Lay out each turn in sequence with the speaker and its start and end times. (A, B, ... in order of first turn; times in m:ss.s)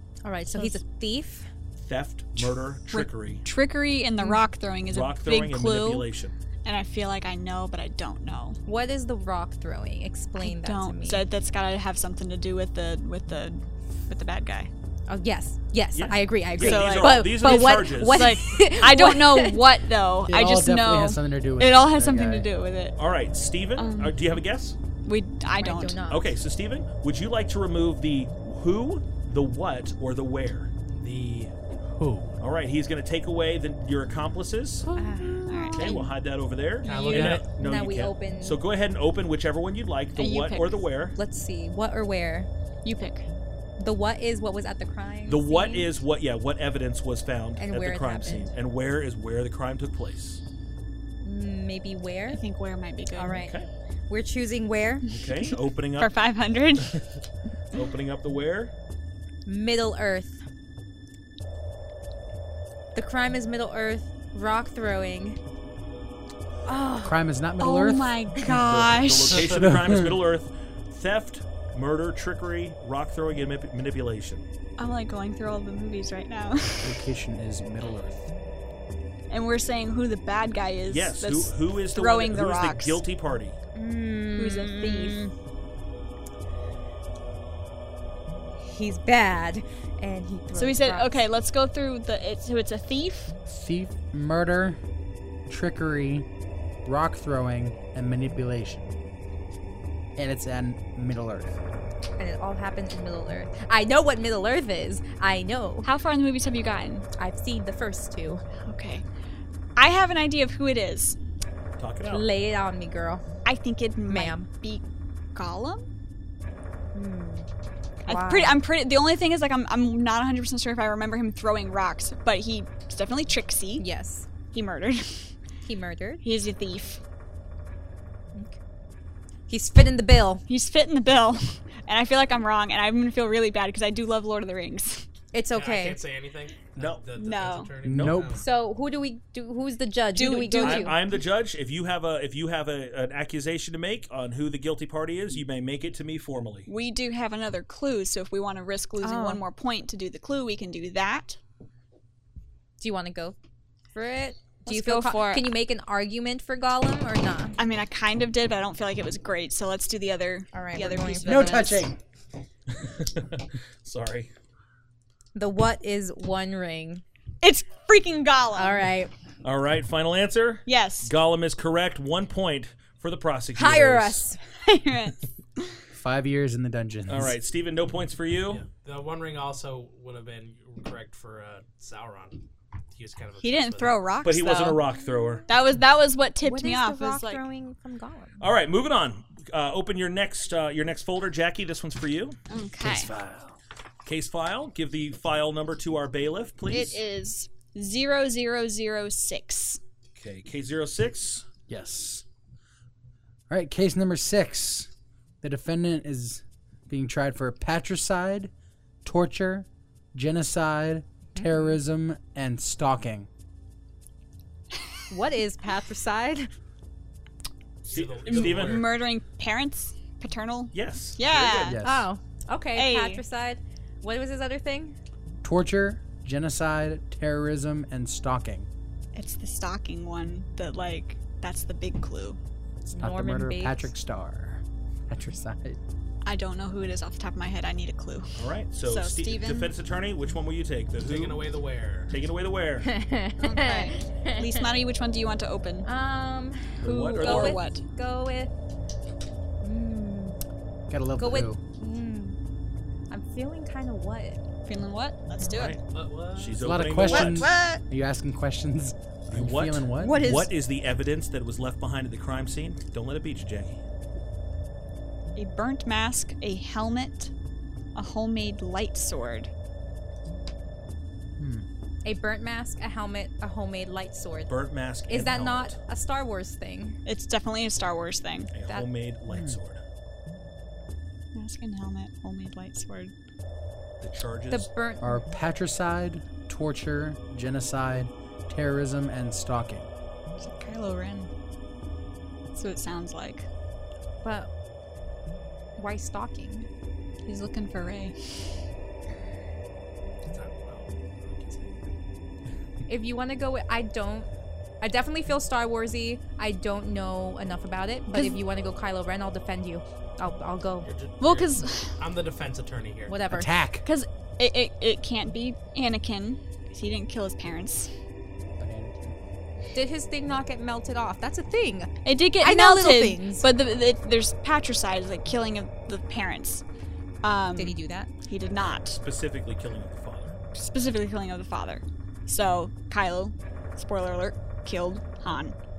0:00.2-0:01.5 A
0:01.8-0:03.4 B
0:02.9-0:06.1 C
0:04.2-0:04.5 A
0:04.9-0:06.3 B
0:06.6-0:08.6 C
0:08.7-0:11.3 A
0:10.4-0:14.7 C
0:15.1-0:19.7 A
0:15.9-0:18.4 B
0:16.6-0:23.0 C
0:20.3-0:22.5 D
0:23.0-0:24.8 B
0:23.8-0:24.4 C
0:25.0-0:26.0 C
0:25.6-0:26.2 A
0:26.1-0:30.7 B
0:31.0-0:32.4 E
0:32.4-0:34.9 B
0:34.9-0:36.1 A
0:35.0-0:36.0 C
0:35.7-0:41.2 B
0:36.8-0:37.4 C
0:36.8-0:37.5 E
0:37.3-0:38.6 A
0:40.2-0:40.9 C
0:41.2-0:42.5 A
0:42.8-0:43.2 C
0:43.8-0:45.9 A
0:45.3-0:50.4 B
0:47.6-0:48.5 A
0:51.2-0:52.4 A
0:52.3-0:53.4 C
0:53.1-0:55.1 A
0:53.4-0:53.7 B
0:55.1-0:56.2 B
0:56.0-0:57.0 C
0:57.7-0:58.7 B
0:59.5-1:00.4 A
1:03.0-1:05.4 A
1:06.7-1:07.2 A
1:07.0-1:08.2 D
1:07.6-1:09.5 C
1:08.4-1:14.4 B
1:09.4-1:10.2 D
1:14.8-1:17.0 C
1:16.8-1:18.3 D
1:19.3-1:23.0 C
1:20.9-1:23.6 B
1:23.8-1:25.3 A
1:24.4-1:25.2 C
1:28.6-1:31.2 A
1:30.6-1:33.3 C
1:33.5-1:34.8 D
1:35.5-1:36.3 D
1:36.8-1:38.9 D
1:40.2-1:41.6 D
1:42.2-1:45.9 A
1:45.8-1:47.1 C
1:47.2-1:48.4 A
1:48.6-1:49.0 C
1:49.8-1:51.2 C
1:51.8-1:52.3 B
1:52.1-1:53.2 A
1:53.4-1:55.8 C
1:54.1-1:54.5 A
1:56.9-1:57.5 A
1:58.0-1:58.6 A
1:58.0-2:03.8 C
2:03.8-2:04.3 A
2:04.5-2:05.3 C
2:05.6-2:06.2 A
2:06.2-2:07.0 C
2:09.5-2:10.4 A
2:10.5-2:15.1 C
2:15.3-2:16.0 A
2:15.5-2:18.4 E
2:16.8-2:17.0 B
2:17.2-2:17.7 C
2:17.8-2:18.4 D
2:18.4-2:21.0 A
2:20.1-2:20.9 C
2:20.6-2:26.7 B
2:26.7-2:31.4 C
2:29.0-2:29.4 A
2:32.8-2:33.4 A
2:33.9-2:37.6 A
2:34.6-2:35.5 C
2:37.6-2:41.9 C
2:40.5-2:41.7 A
2:41.2-2:42.0 D
2:42.8-2:44.3 B
2:45.4-2:47.0 A
2:47.4-2:48.8 C
2:48.6-2:49.1 A
2:49.4-2:54.3 B
2:50.7-2:51.1 C
2:53.5-2:54.4 A
2:54.6-2:55.2 C
2:55.9-2:57.4 D
2:57.1-2:58.6 B
2:58.5-3:04.1 E
3:03.4-3:04.8 C
3:04.2-3:05.5 B
3:05.5-3:07.4 C
3:06.4-3:08.4 A
3:08.4-3:12.4 B
3:12.5-3:13.1 C
3:12.8-3:13.6 D
3:14.0-3:17.0 B
3:16.7-3:19.8 C
3:20.2-3:21.4 B
3:21.7-3:22.2 D
3:23.5-3:24.9 D
3:25.4-3:28.5 D
3:29.0-3:33.3 D
3:31.3-3:31.7 A
3:35.1-3:36.5 A
3:37.8-3:38.9 B
3:37.8-3:39.0 E
3:38.3-3:41.8 C
3:40.7-3:41.8 B
3:41.6-3:42.1 D
3:41.8-3:45.0 A
3:42.7-3:43.2 C
3:45.4-3:48.7 D
3:49.2-3:52.4 C
3:52.9-3:53.9 A
3:52.9-3:55.8 D
3:56.2-3:59.7 C
3:58.4-4:01.5 B
4:01.0-4:02.1 E
4:02.1-4:02.9 B
4:02.8-4:04.7 A
4:03.4-4:05.9 C
4:05.8-4:08.5 A
4:06.8-4:07.6 B
4:06.9-4:07.8 C
4:09.6-4:10.4 A
4:10.9-4:11.6 D
4:11.2-4:12.4 A
4:13.1-4:14.4 A
4:14.6-4:15.8 C
4:15.4-4:15.8 B
4:15.9-4:16.6 E
4:16.4-4:17.5 B
4:16.6-4:20.2 D
4:17.1-4:17.8 C
4:17.5-4:17.8 A
4:19.3-4:23.8 B
4:20.0-4:20.5 A
4:20.0-4:20.5 C
4:25.4-4:27.3 C
4:28.0-4:29.5 C
4:31.4-4:31.7 D
4:32.0-4:34.6 A
4:34.5-4:35.8 B
4:35.1-4:37.0 A
4:37.0-4:38.5 C
4:38.5-4:39.8 B
4:39.3-4:39.6 D
4:41.3-4:43.1 C
4:44.0-4:44.7 B
4:44.5-4:45.2 A
4:45.0-4:49.9 D
4:50.4-4:51.3 C
4:52.5-4:53.5 C
4:54.2-4:54.5 A
4:55.8-4:56.7 A
4:57.2-4:58.2 C
5:00.3-5:01.8 E
5:02.9-5:04.3 A
5:04.8-5:10.9 A
5:08.1-5:08.4 C
5:10.8-5:13.2 E
5:11.2-5:12.0 C
5:13.1-5:13.5 A
5:13.3-5:13.8 D
5:13.8-5:17.9 C
5:18.6-5:19.2 D
5:19.7-5:23.5 A
5:22.0-5:26.6 C
5:27.2-5:29.0 C
5:27.6-5:28.1 A
5:28.8-5:30.4 B
5:30.5-5:35.6 C